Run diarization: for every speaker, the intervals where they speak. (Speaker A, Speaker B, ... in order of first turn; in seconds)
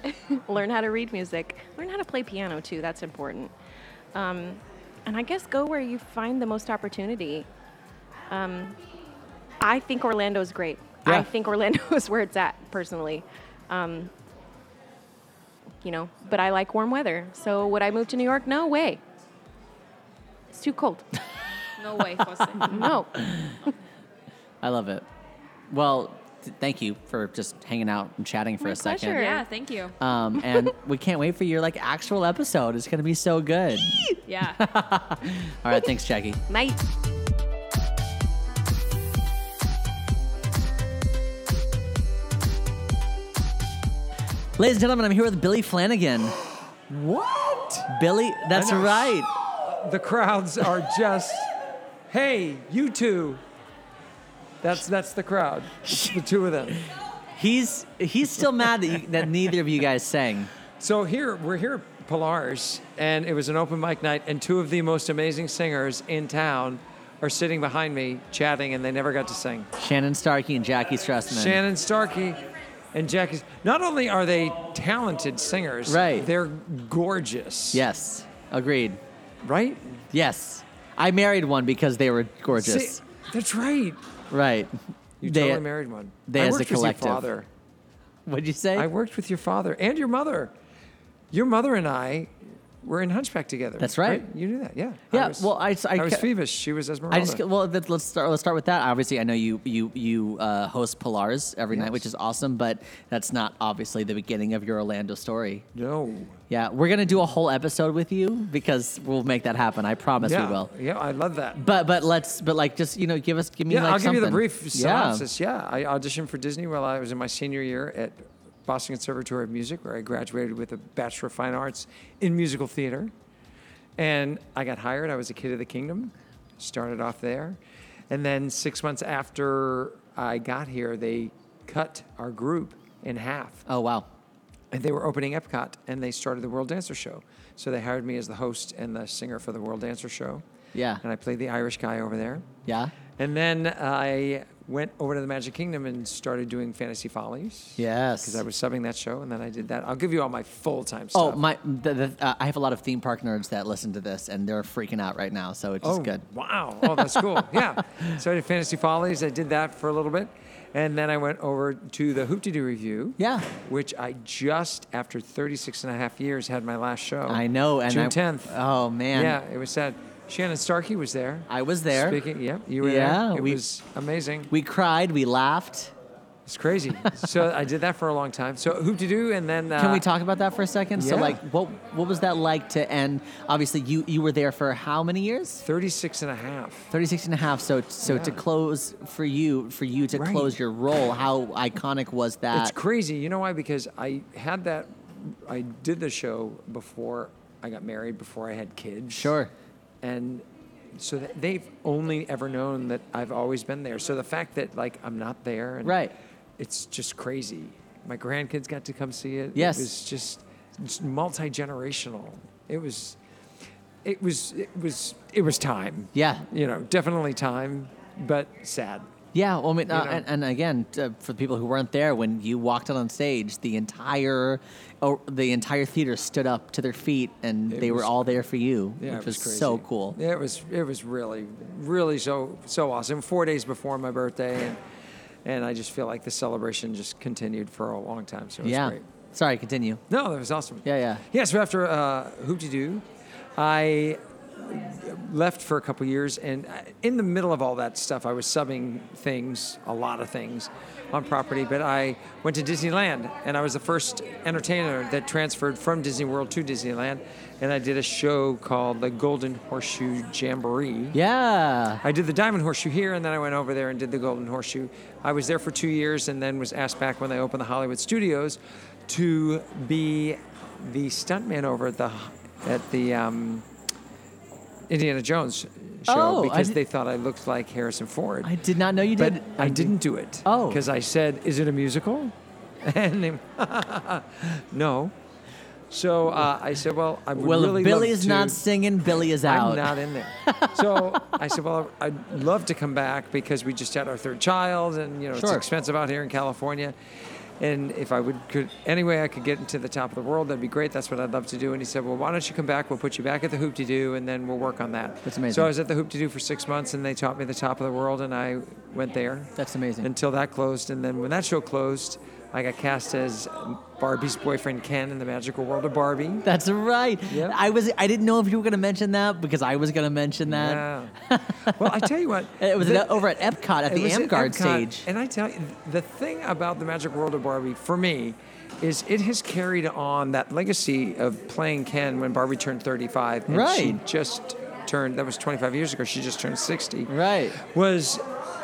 Speaker A: 0.2-3.5, 4.1-7.5, 8.3-8.8, 9.6-14.1, 15.8-19.0, 20.5-21.1, 22.6-23.3, 28.6-29.4, 36.5-36.8
Speaker B: 21.8-22.9, 29.1-30.0, 34.2-34.6
Speaker C: 23.2-23.6, 24.6-25.0, 25.7-29.2, 30.0-36.4, 44.6-46.4, 47.9-49.3, 55.9-56.2, 57.4-60.5, 69.8-71.6, 75.8-76.3, 77.7-79.0, 80.1-83.0, 84.3-85.6, 86.2-87.2, 88.2-88.9, 93.8-94.2, 95.1-96.3, 97.1-105.6, 106.5-110.7, 111.5-115.2, 133.7-134.1, 140.7-141.0, 142.7-142.9, 147.8-148.4, 151.1-156.2, 156.8-157.6, 163.2-163.5, 167.3-169.4, 171.5-172.2, 172.8-173.6, 174.5-175.9, 179.8-185.6, 186.9-192.8, 199.1-199.5, 205.8-206.1, 209.5-209.9, 216.1-216.4, 219.3-230.2, 238.6-240.0, 240.8-241.2, 261.1-262.0, 276.1-276.8, 278.4-279.9, 280.4-280.8, 287.3-291.2, 295.3-295.6, 305.2-305.7, 309.6-310.1, 316.4-322.0, 322.6-325.1, 333.5-334.0, 337.1-337.6
Speaker D: 46.9-47.9, 48.5-51.5, 52.1-53.4, 54.6-56.8, 60.8-69.7, 71.3-77.8, 79.4-80.0, 82.5-84.0, 85.2-87.5, 88.7-90.5, 91.3-97.4, 101.7-102.0, 105.7-106.4, 110.2-111.6, 113.7-123.1, 124.0-127.6, 128.1-133.6, 134.7-140.4, 141.0-142.5, 143.2-151.4, 155.8-168.5, 169.1-174.5, 176.4-180.1, 181.0-181.4, 185.6-186.9, 188.0-188.4, 190.1-190.5, 192.5-199.3, 200.0-206.0, 206.6-213.2, 214.0-219.1, 219.9-220.2, 227.7-228.4, 229.0-234.8, 235.4-239.0, 240.1-243.0, 243.6-261.2, 262.0-273.6, 274.9-278.5, 279.1-285.1, 285.9-288.6, 289.2-296.9, 297.6-316.4, 317.3-317.6, 320.4-338.2